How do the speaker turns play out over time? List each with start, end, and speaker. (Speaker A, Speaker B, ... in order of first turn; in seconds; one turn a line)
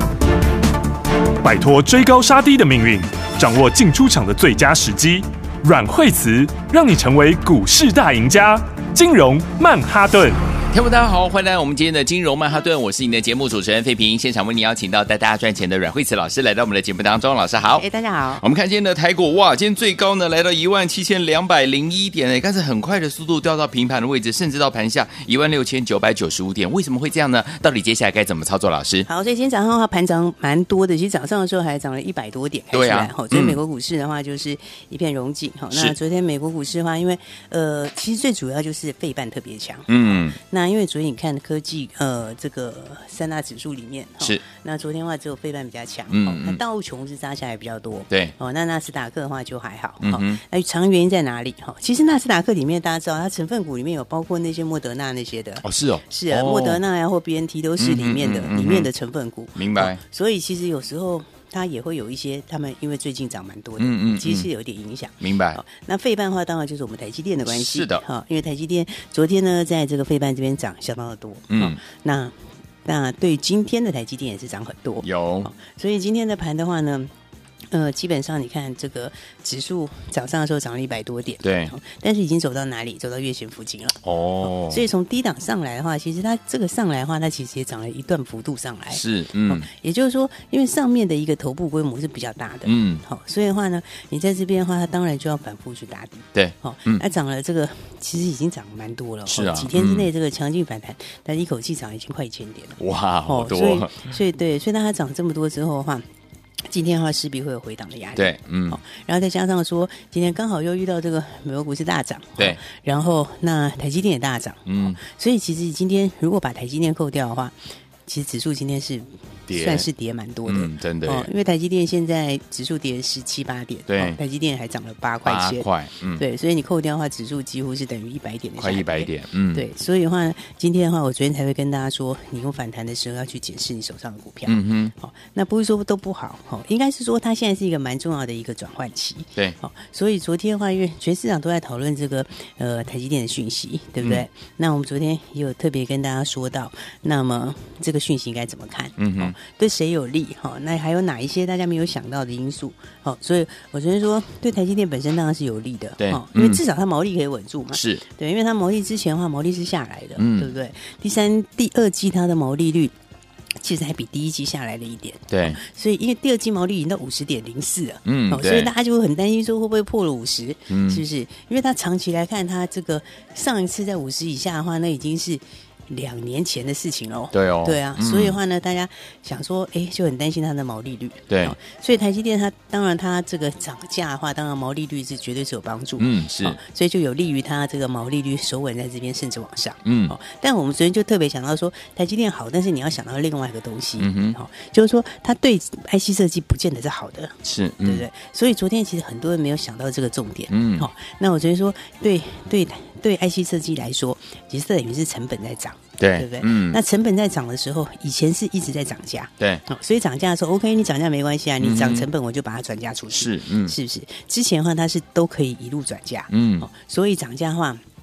Speaker A: 1.4-10.4
Speaker B: 10.7-17.8
Speaker C: 17.7-18.4
Speaker B: 18.4-29.1
Speaker C: 29.1-72.3
Speaker B: 32.7-33.6
Speaker B: 39.9-40.4
Speaker B: 46.1-46.6
Speaker B: 50.0-50.4
Speaker B: 55.6-56.8
Speaker B: 57.8-58.9
Speaker B: 59.5-60.0
Speaker B: 63.8-64.5
Speaker B: 65.2-65.6
Speaker B: 67.5-68.0
Speaker B: 71.5-71.8
Speaker C: 72.8-77.1
Speaker B: 75.0-75.5
Speaker C: 77.7-106.0
Speaker B: 81.4-81.7
Speaker B: 84.0-84.8
Speaker B: 88.9-89.7
Speaker B: 92.6-93.0
Speaker B: 96.3-97.0
Speaker B: 99.3-100.1
Speaker B: 102.8-104.0
Speaker C: 106.7-117.5
Speaker B: 108.2-108.8
Speaker B: 114.7-115.0
Speaker C: 118.0-125.7
Speaker B: 119.5-119.9
Speaker B: 120.5-121.3
Speaker B: 123.9-124.2
Speaker B: 125.2-126.2
Speaker C: 126.2-162.9
Speaker B: 128.6-129.6
Speaker B: 134.5-134.9
Speaker B: 149.0-149.3
Speaker B: 156.0-156.6
Speaker B: 157.7-158.0
Speaker B: 160.2-160.5
Speaker C: 163.6-217.8
Speaker B: 165.3-165.6
Speaker B: 168.1-168.7
Speaker B: 170.7-171.0
Speaker B: 177.3-178.4
Speaker B: 181.3-181.6
Speaker B: 186.0-186.6
Speaker B: 189.8-190.1
Speaker B: 194.0-194.4
Speaker B: 197.4-198.1
Speaker B: 200.5-200.9
Speaker B: 206.0-206.8
Speaker B: 211.6-212.1
Speaker B: 213.1-213.8
Speaker B: 216.3-216.7